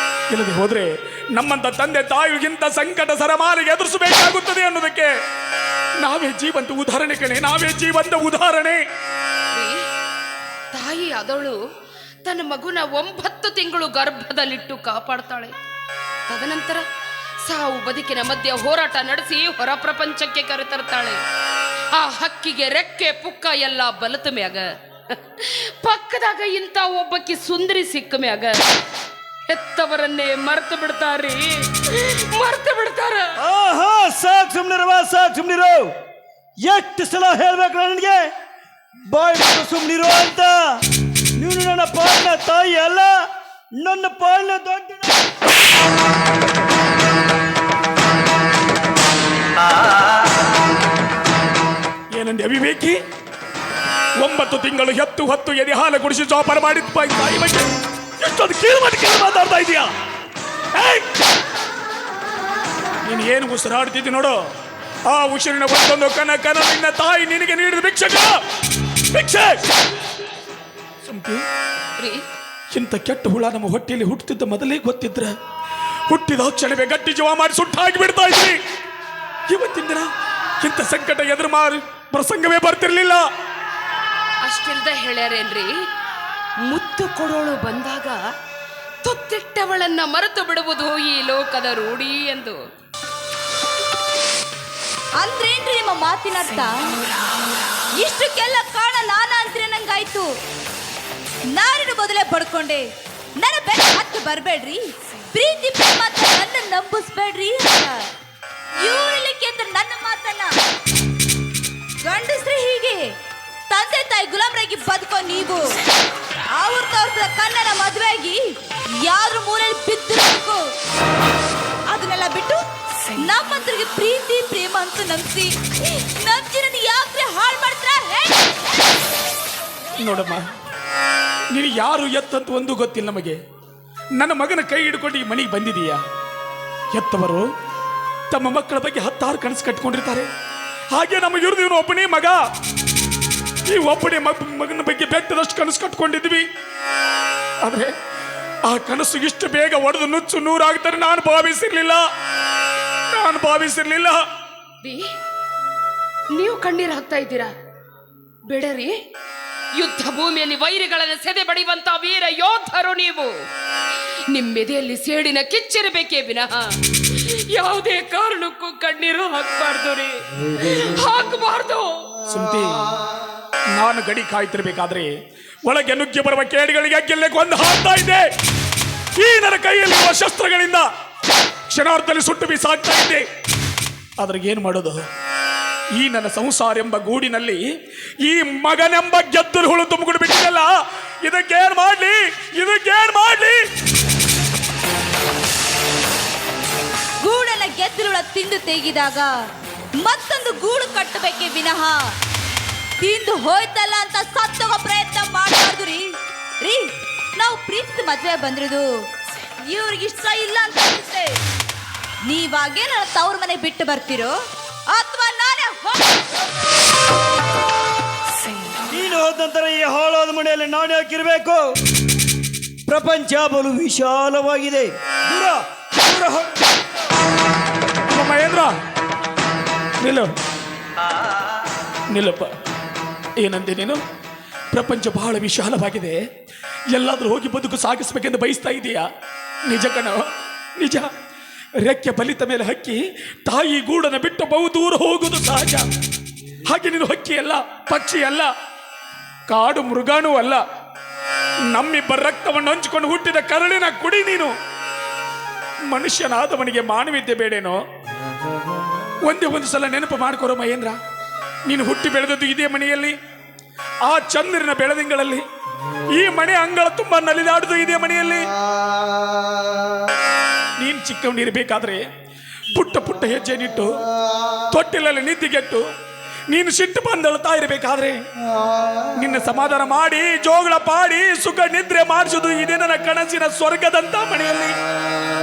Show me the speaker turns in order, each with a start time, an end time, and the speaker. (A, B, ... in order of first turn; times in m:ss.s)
0:00.3-0:05.1 A
0:06.0-0:08.8 A
0:09.5-0:09.8 B
0:10.7-0:11.6 B
0:12.2-0:15.5 B
0:16.3-0:16.8 B
0:17.4-0:21.2 B
0:21.9-0:28.6 B
0:29.5-0:33.3 B
0:33.4-0:35.9 C
0:36.6-0:38.2 C
0:39.1-0:40.8 C
0:41.4-0:43.1 C
0:43.8-0:45.3 C
0:52.1-0:53.0 A
0:54.2-0:59.9 A
1:00.8-1:01.0 A
1:03.0-1:04.4 A
1:05.1-1:08.4 A
1:09.1-1:09.6 A
1:11.0-1:11.4 A
1:12.0-1:12.2 B
1:12.7-1:15.3 A
1:16.1-1:18.6 A
1:19.5-1:20.1 A
1:20.6-1:23.2 A
1:24.4-1:25.7 B
1:26.7-1:28.2 B
1:29.0-1:32.6 B
1:35.2-1:37.0 D
1:38.0-1:40.3 D
1:41.5-1:48.1 D
1:48.8-1:50.6 D
1:52.0-1:53.2 D
1:53.7-1:55.8 D
1:56.5-2:00.7 D
2:01.9-2:02.6 D
2:03.2-2:08.5 D
2:10.0-2:10.4 A
2:11.5-2:13.4 A
2:14.2-2:16.0 A
2:16.9-2:17.5 A
2:18.3-2:20.3 A
2:20.9-2:22.4 A
2:23.7-2:26.5 A
2:27.6-2:27.9 A
2:28.6-2:32.0 A
2:33.1-2:34.2 A
2:36.3-2:37.5 B
2:38.5-2:38.9 B
2:39.8-2:43.3 B
2:44.3-2:52.1 B
2:52.2-2:52.9 A
2:53.8-2:55.1 A
2:55.6-2:58.2 A
2:59.2-3:00.9 A
3:01.7-3:03.2 A
3:04.2-3:05.0 A
3:06.0-3:07.6 A
3:08.2-3:10.7 A
3:11.2-3:13.6 A
3:17.2-3:19.3 D
3:20.0-3:22.1 D
3:23.0-3:29.0 D
3:29.6-3:31.4 D
3:32.2-3:36.0 D
3:38.9-3:41.6 C
3:42.9-3:46.8 C
3:48.1-3:48.7 A
3:50.0-3:50.3 A
3:52.1-3:52.5 A
3:53.4-3:54.0 A
3:54.7-3:56.2 A
3:56.9-3:59.1 A
3:59.7-4:00.2 A
4:00.8-4:01.1 A
4:01.8-4:05.8 A
4:06.7-4:08.5 A
4:09.5-4:10.6 A
4:11.7-4:14.5 A
4:15.9-4:17.8 A
4:19.2-4:21.0 A
4:21.7-4:23.2 A
4:24.0-4:25.4 A
4:26.1-4:28.5 A
4:30.8-4:32.0 A
4:32.7-4:33.9 A
4:34.7-4:35.9 A
4:36.5-4:38.2 A
4:39.1-4:44.8 A